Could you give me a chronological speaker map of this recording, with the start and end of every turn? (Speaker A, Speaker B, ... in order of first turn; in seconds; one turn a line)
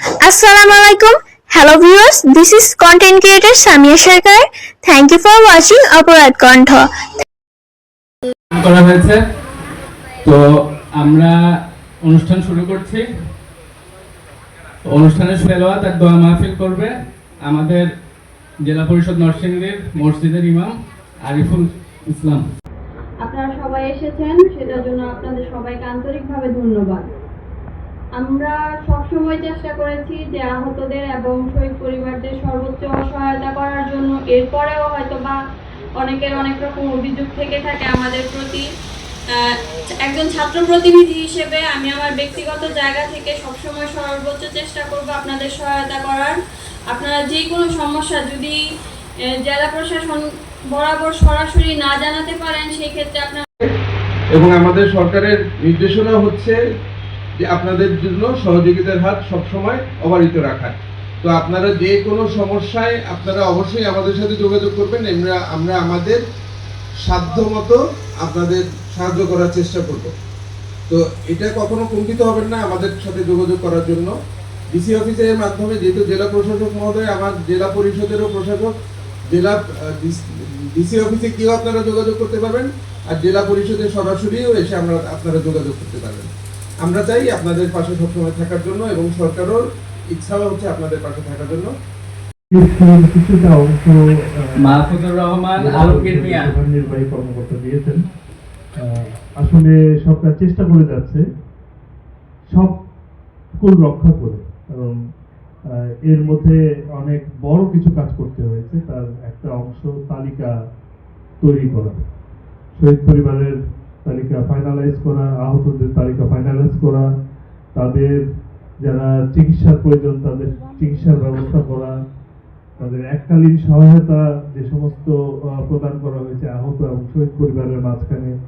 Speaker A: 0.2-6.9
Speaker B: 8.6-9.2
Speaker B: 10.9-11.4
Speaker B: 12.1-13.0
Speaker B: 14.9-16.9
Speaker B: 17.4-17.9
Speaker B: 18.6-20.7
Speaker B: 21.3-22.4
Speaker C: 23.2-27.1
Speaker C: 28.2-35.4
Speaker C: 36.0-38.6
Speaker C: 39.3-46.4
Speaker C: 46.9-48.6
Speaker C: 49.3-53.5
Speaker D: 54.3-56.6
Speaker D: 57.4-66.2
Speaker D: 67.0-70.1
Speaker D: 70.9-74.1
Speaker D: 74.7-78.7
Speaker D: 79.3-86.3
Speaker D: 86.8-91.7
Speaker E: 92.5-94.8
Speaker B: 94.6-96.5
Speaker E: 95.6-98.0
Speaker E: 98.8-101.2
Speaker E: 103.6-105.0
Speaker E: 106.0-110.5
Speaker E: 111.4-112.0
Speaker E: 112.8-117.1
Speaker E: 117.7-118.2
Speaker E: 118.8-121.9
Speaker E: 122.8-128.3